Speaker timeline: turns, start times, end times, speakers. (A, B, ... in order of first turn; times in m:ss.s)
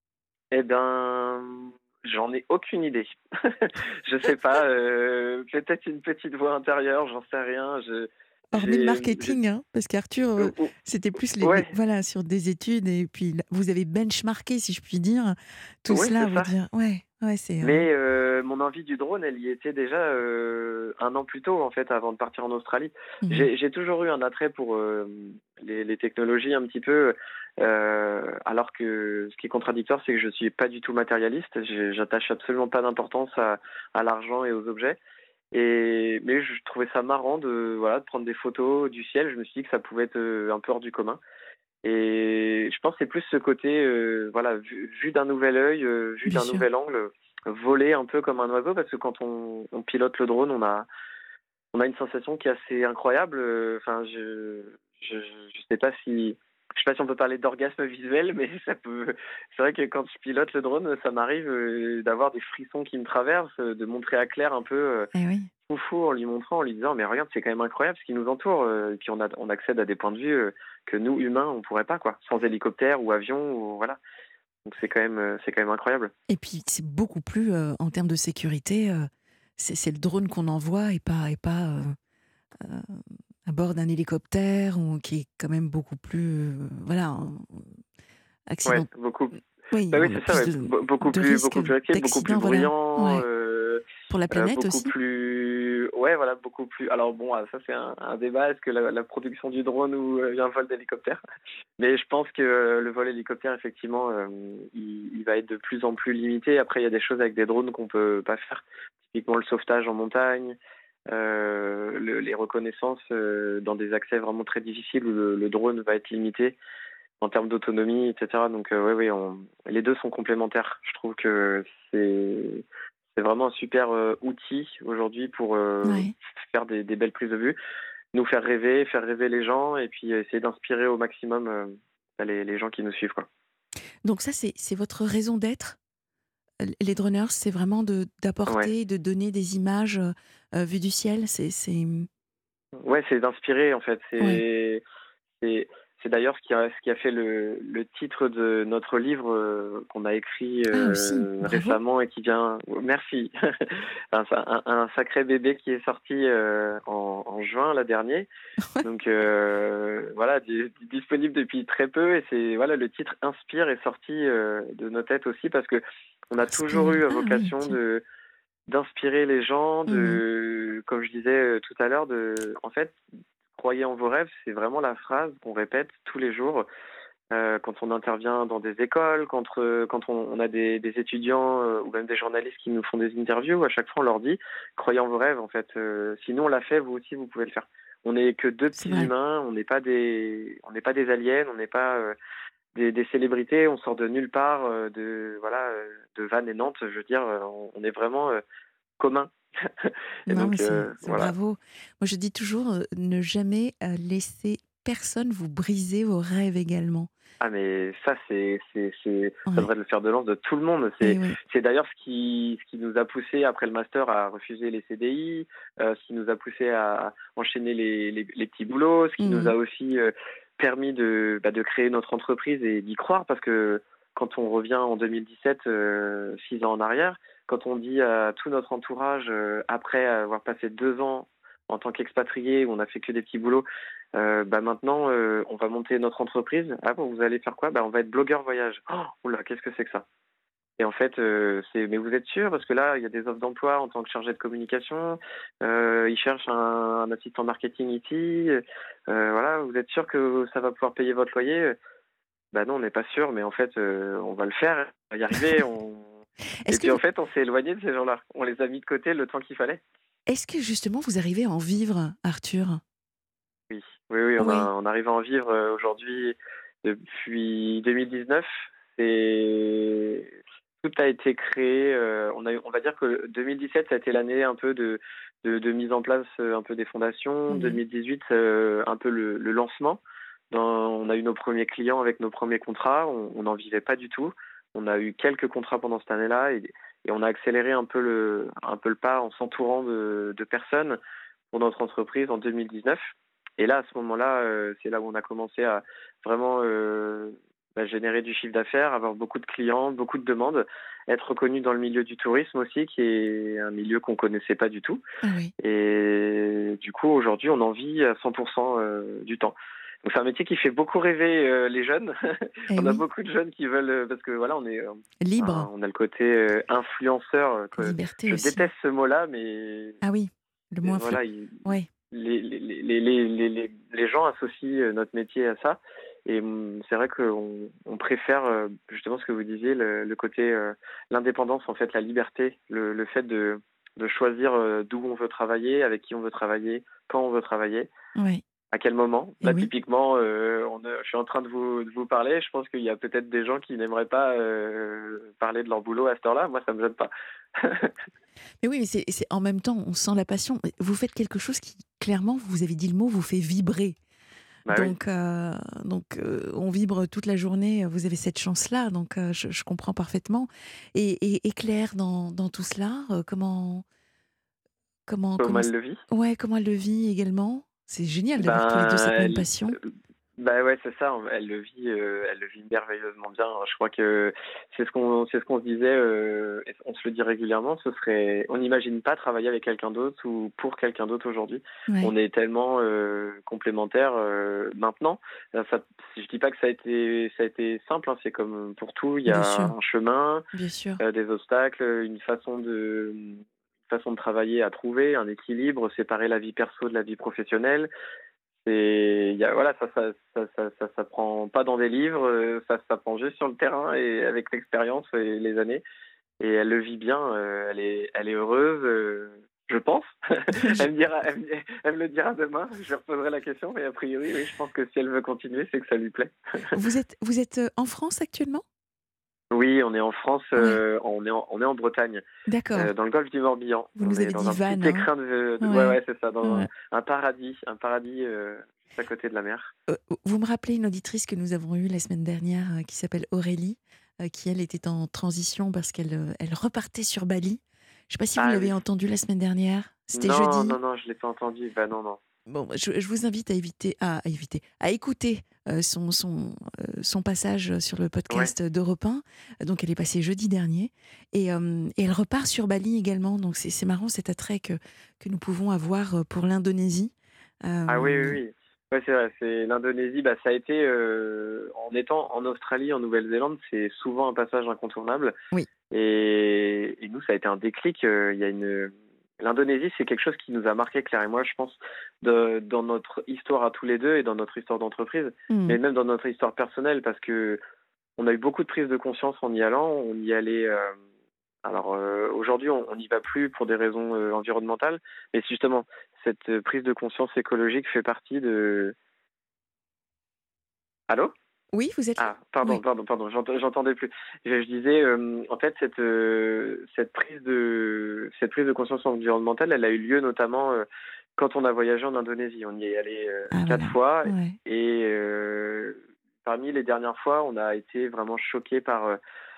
0:00.5-0:09.4 A
0:08.5-0:17.9 B
0:10.4-0:10.7 A
0:11.4-0:11.7 A
0:15.9-0:16.5 A
0:17.6-0:35.0 A
0:35.5-0:41.2 A
0:41.8-0:50.9 A
0:46.3-0:46.6 B
0:51.7-1:05.1 A
1:05.1-1:05.5 B
1:05.6-1:14.0 A
1:14.6-1:16.1 A
1:16.3-1:22.0 B
1:22.6-1:27.8 B
1:28.5-1:28.9 B
1:28.6-1:29.3 A
1:29.7-1:33.2 B
1:29.9-1:41.2 A
1:34.1-1:34.9 B
1:41.8-1:50.6 A
1:51.1-1:56.6 A
1:57.2-2:07.6 A
2:05.8-2:06.1 B
2:08.1-2:13.3 A
2:14.0-2:15.8 B
2:16.6-2:22.1 B
2:22.8-2:24.8 A
2:25.4-2:38.3 A
2:30.7-2:31.8 B
2:38.8-2:48.0 A
2:46.5-2:47.8 B
2:48.7-2:53.0 A
2:49.9-2:50.2 B
2:53.6-2:56.6 A
2:57.3-3:12.1 A
3:08.8-3:09.1 B
3:12.7-3:18.4 A
3:19.0-3:21.3 A
3:20.3-3:27.1 B
3:27.4-4:00.0 A
3:31.0-3:31.4 B
3:39.2-3:39.5 B
4:00.8-4:11.7 A
4:12.5-4:16.1 A
4:16.6-4:17.0 B
4:16.7-4:19.8 A
4:20.3-4:22.8 B
4:23.7-4:30.3 A
4:24.4-4:24.7 B
4:30.8-4:51.0 A
4:37.5-4:37.8 B
4:51.5-4:53.1 A
4:53.6-5:05.0 A
5:05.2-5:05.5 B
5:05.6-5:20.0 A
5:12.7-5:13.0 B
5:15.2-5:15.7 B
5:17.8-5:18.7 B
5:20.0-5:21.9 B
5:20.8-5:37.9 A
5:38.2-5:38.4 B
5:38.7-5:47.9 A
5:39.4-5:39.7 B
5:48.6-5:54.0 B
5:54.6-5:55.0 A
5:54.7-6:03.8 B
6:05.1-6:09.8 B
6:05.4-6:06.0 A
6:08.4-6:30.4 A
6:29.2-6:29.7 B
6:30.5-6:31.0 B
6:31.0-6:37.9 A
6:38.6-6:45.8 A
6:46.4-6:56.8 A
6:50.6-6:50.8 B
6:56.7-6:58.6 B
6:59.5-7:02.2 A
7:02.5-7:02.9 B
7:02.7-7:09.7 A
7:04.0-7:05.1 B
7:05.6-7:06.7 B
7:09.9-7:20.8 B
7:18.4-7:18.8 A
7:20.1-7:22.2 A
7:22.5-7:38.4 B
7:37.9-7:45.4 A
7:45.9-7:57.6 A
7:55.5-7:55.8 B
7:58.2-8:01.0 A
8:01.6-8:08.9 A
8:11.7-8:12.8 B
8:12.2-8:20.8 A
8:21.4-8:29.2 A
8:23.5-8:24.6 B